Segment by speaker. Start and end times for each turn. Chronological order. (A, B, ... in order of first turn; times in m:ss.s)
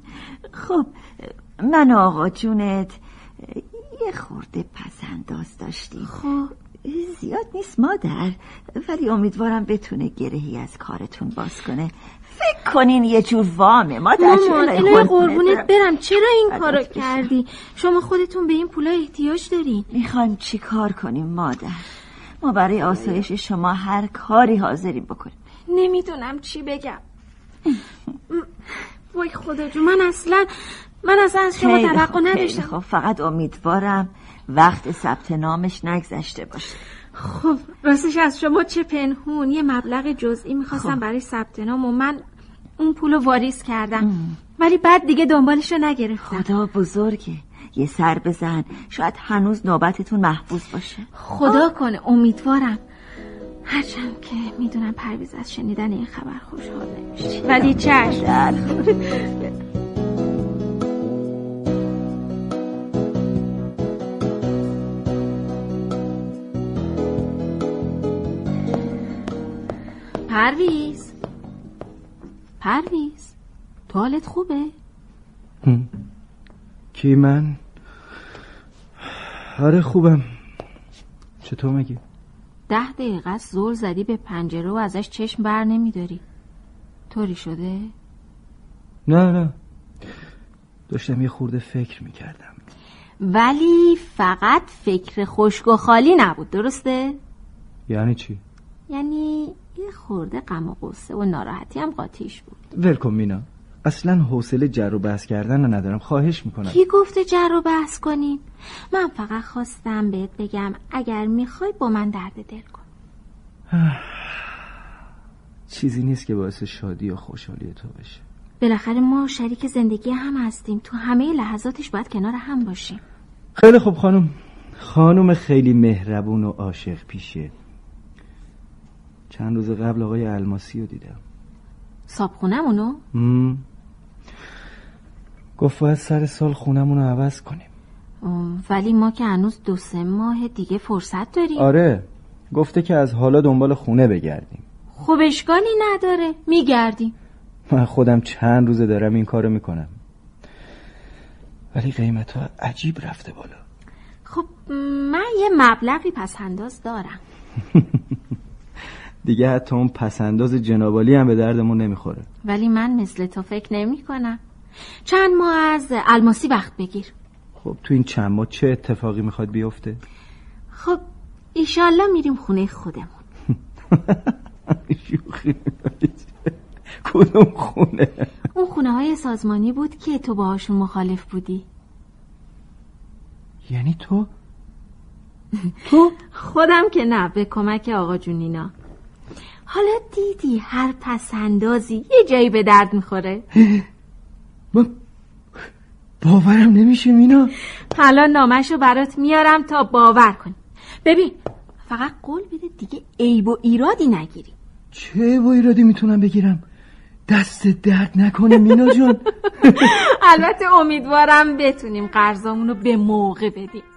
0:00.5-0:06.1 A
0:06.0-0:06.5 B
0:06.8-0:15.7 A
0:14.2-0:19.9 B
0:16.5-0:17.3 A
0:19.9-0:21.9 A
0:22.4-0:25.3 A
0:25.7-0:27.0 B
0:28.3-0:32.7 B
0:31.5-0:36.8 A
0:37.2-0:42.2 B
0:40.7-0:41.0 A
0:42.8-0:46.5 B
0:44.0-0:44.4 A
0:46.3-0:51.6 A
0:51.2-0:52.8 B
0:53.7-0:59.4 B
0:57.4-0:58.8 A
1:10.3-1:11.1 B
1:12.6-1:13.3 B
1:13.9-1:14.7 B
1:15.6-1:15.9 C
1:16.9-1:17.6 C
1:19.2-1:20.2 C
1:21.4-1:22.0 C
1:22.7-1:26.2 B
1:27.1-1:27.9 B
1:29.1-1:29.5 C
1:30.9-1:32.6 C
1:33.2-1:37.2 B
1:37.9-1:38.4 C
1:38.9-1:42.6 B
1:42.7-1:46.8 C
1:46.7-1:52.8 B
1:53.7-1:54.2 C
1:55.7-1:58.2 C
1:58.6-2:03.0 B
2:03.6-2:07.5 C
2:09.3-2:11.2 C
2:12.1-2:13.0 B
2:13.1-2:13.6 C
2:15.6-2:17.7 C
2:18.2-2:21.7 B
2:21.6-2:24.6 C
2:25.0-2:27.1 B
2:27.7-2:29.9 C
2:31.7-2:33.6 C
2:34.3-2:37.2 B
2:39.2-2:42.3 C
2:42.4-2:44.4 B
2:45.0-2:47.1 B
2:47.6-2:50.0 C
2:50.7-2:51.0 B
2:51.6-2:53.2 B
2:53.9-2:56.5 C
2:57.0-2:58.3 C
2:58.5-3:01.6 B
3:03.7-3:04.3 C
3:05.8-3:06.1 C
3:06.2-3:08.7 B
3:09.7-3:13.4 B
3:13.6-3:13.8 C
3:16.2-3:17.5 C
3:17.9-3:24.5 B
3:24.9-3:26.6 C
3:27.3-3:29.9 C
3:29.6-3:33.8 B